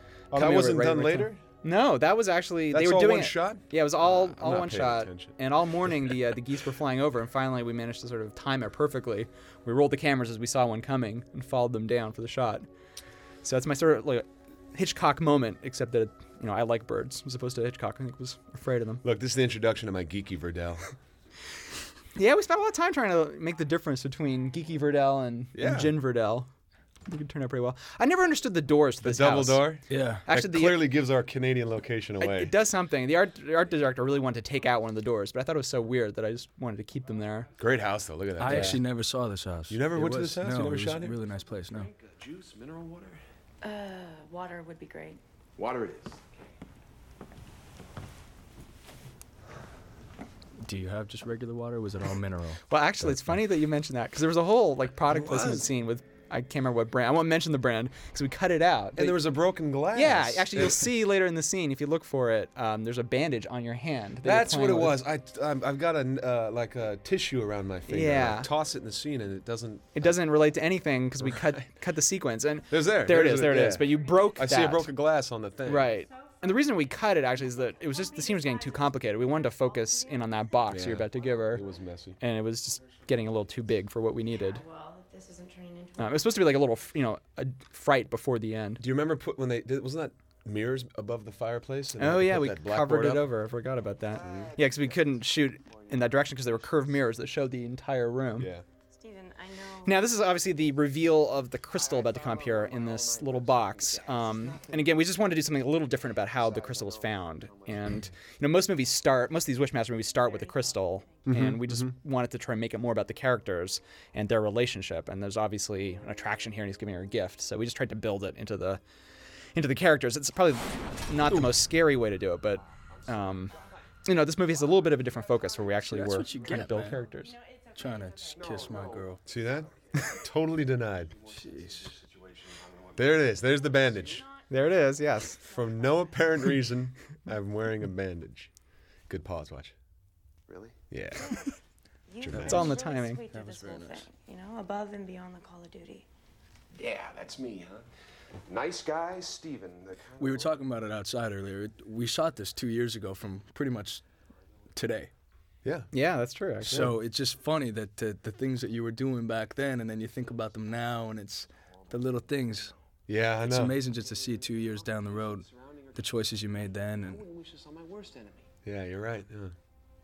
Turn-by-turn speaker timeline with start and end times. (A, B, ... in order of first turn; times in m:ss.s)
0:00.3-0:01.4 A
0:00.3-0:12.7 B
0:02.7-0:05.4 A
0:13.4-0:19.0 B
0:19.0-0:20.9 A
0:22.2-0:26.5 B
0:25.6-0:25.9 A
0:27.1-0:30.8 B
0:29.0-0:32.5 A
0:29.9-0:30.3 C
0:32.2-0:37.5 B
0:37.6-0:38.8 A
0:38.4-0:41.9 C
0:38.5-0:38.8 B
0:39.7-0:41.2 A
0:41.8-0:43.2 D
0:43.6-0:45.2 E
0:45.6-0:46.4 D
0:50.6-0:53.2 C
0:52.7-0:59.2 B
0:55.1-0:55.7 A
0:59.0-1:00.8 A
0:59.9-1:05.0 B
1:04.2-1:10.2 A
1:07.9-1:08.5 B
1:10.0-1:14.9 B
1:12.7-1:15.9 A
1:15.6-1:21.7 B
1:20.7-1:22.2 A
1:22.2-1:24.6 B
1:24.3-1:26.3 E
1:26.0-1:28.8 B
1:28.8-1:33.2 A
1:32.0-1:38.5 B
1:34.2-1:37.0 D
1:34.2-1:34.5 A
1:38.4-1:38.6 A
1:38.9-1:40.0 E
1:39.8-1:58.8 B
1:41.8-1:44.9 D
1:46.3-1:48.0 D
1:51.3-1:51.9 A
1:59.6-2:03.5 B
2:02.9-2:03.4 D
2:04.0-2:07.4 B
2:05.9-2:07.0 C
2:07.8-2:09.2 C
2:08.4-2:09.7 D
2:09.3-2:11.1 A
2:11.1-2:14.2 D
2:11.4-2:11.9 C
2:13.0-2:14.2 A
2:14.5-2:15.4 B
2:15.5-2:18.5 A
2:19.1-2:19.8 A
2:20.5-2:20.8 D
2:20.9-2:21.4 A
2:22.1-2:26.1 E
2:22.2-2:22.8 A
2:22.3-2:23.2 B
2:23.3-2:24.1 C
2:26.8-2:27.9 D
2:28.5-2:30.5 D
2:30.2-2:34.0 C
2:34.7-2:35.1 C
2:35.6-2:35.9 A
2:35.9-2:36.9 B
2:36.7-2:36.9 A
2:36.7-2:42.7 C
2:43.1-2:43.8 A
2:43.5-2:47.2 C
2:44.0-2:46.2 D
2:47.0-2:48.5 D
2:48.6-2:49.5 A